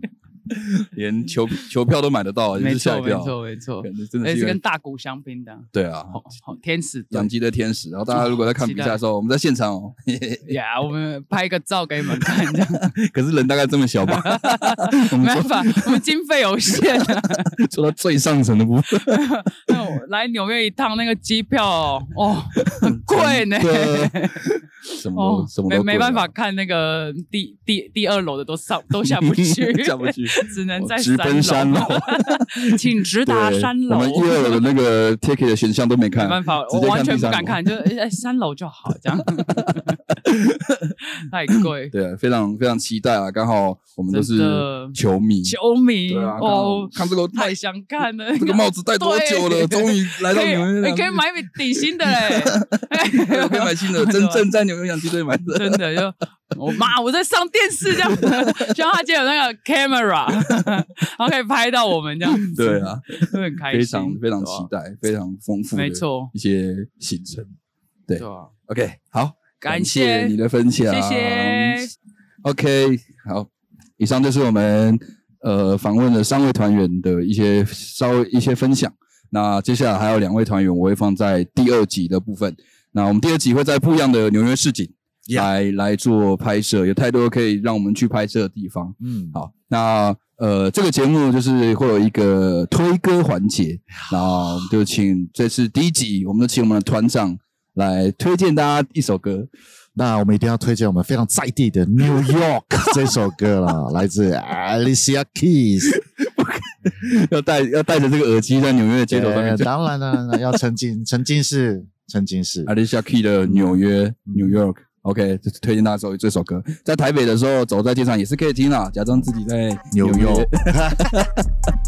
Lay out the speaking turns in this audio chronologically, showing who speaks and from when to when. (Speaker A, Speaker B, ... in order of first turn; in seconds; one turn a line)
Speaker A: 0.5-4.6
Speaker B: 2.6-7.3
Speaker A: 5.7-6.2
Speaker A: 7.1-10.5
Speaker B: 8.1-9.0
Speaker B: 10.5-12.9
Speaker A: 12.2-16.0
Speaker B: 14.0-17.5
Speaker A: 16.7-19.7
Speaker B: 18.9-24.5
Speaker A: 22.6-26.3
Speaker B: 25.1-34.7
Speaker A: 29.0-37.6
Speaker B: 36.1-40.1
Speaker A: 39.4-40.9
Speaker B: 41.1-41.9
Speaker A: 41.6-47.5
Speaker B: 44.1-54.5
Speaker A: 48.4-56.0
Speaker B: 55.5-64.7
Speaker A: 57.9-58.6
Speaker A: 62.2-67.5
Speaker B: 65.7-66.3
Speaker A: 68.1-71.8
Speaker B: 68.2-68.5
Speaker B: 69.6-70.4
Speaker B: 70.9-71.9
Speaker A: 72.4-99.5
Speaker C: 89.0-89.3
Speaker C: 100.0-105.9
Speaker A: 102.2-103.1
Speaker A: 105.9-109.7
Speaker C: 109.1-112.7
Speaker A: 112.7-121.4
Speaker C: 113.5-113.8
Speaker C: 119.9-121.1